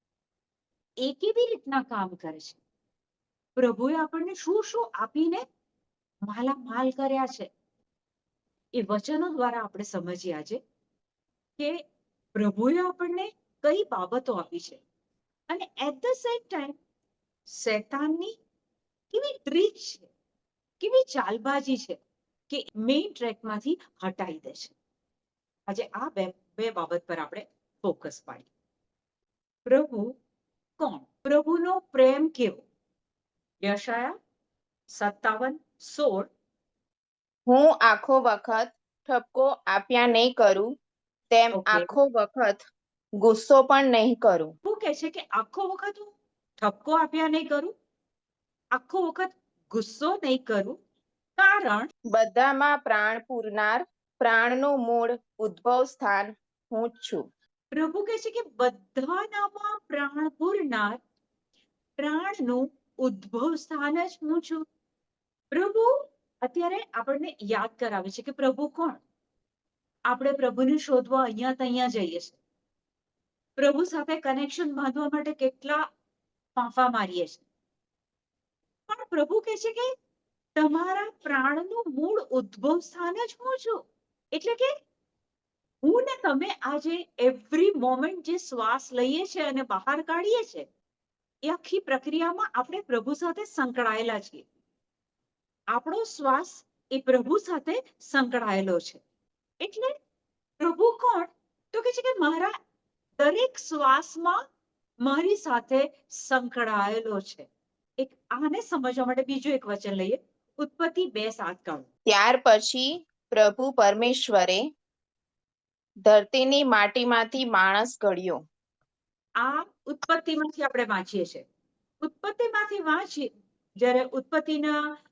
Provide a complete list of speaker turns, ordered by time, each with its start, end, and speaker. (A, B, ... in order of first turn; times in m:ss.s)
0:01.0-0:02.6 A
0:03.6-0:05.4 A
0:06.3-0:07.5 A
0:08.8-0:10.6 A
0:12.3-0:14.8 A
0:15.5-0:16.8 A
0:17.5-0:18.3 A
0:19.1-0:20.1 A
0:20.8-0:22.0 A
0:22.5-0:24.7 A
0:25.7-0:28.5 A
0:29.6-0:30.1 A
0:30.8-0:32.6 A
0:33.6-0:34.1 A
0:35.0-0:36.3 A
0:37.5-0:40.7 B
0:41.3-0:42.6 B
0:41.5-0:41.9 A
0:43.2-0:44.5 B
0:44.6-0:47.7 A
0:48.7-0:50.8 A
0:51.4-0:51.9 A
0:52.1-0:57.2 B
0:57.7-1:01.0 A
1:02.0-1:04.6 A
1:05.5-1:05.9 A
1:06.4-1:09.0 A
1:10.1-1:12.4 A
1:13.6-1:15.8 A
1:16.6-1:17.4 A
1:18.9-1:19.9 A
1:20.6-1:23.8 A
1:24.3-1:24.7 A
1:25.8-1:30.6 A
1:31.4-1:34.4 A
1:35.7-1:39.0 A
1:39.6-1:39.9 A
1:40.6-1:42.5 A
1:43.2-1:44.4 A
1:45.0-1:47.5 A
1:48.0-1:51.9 A
1:52.1-1:54.6 B
1:56.0-1:58.4 B
1:59.4-2:01.4 A
2:02.0-2:04.8 A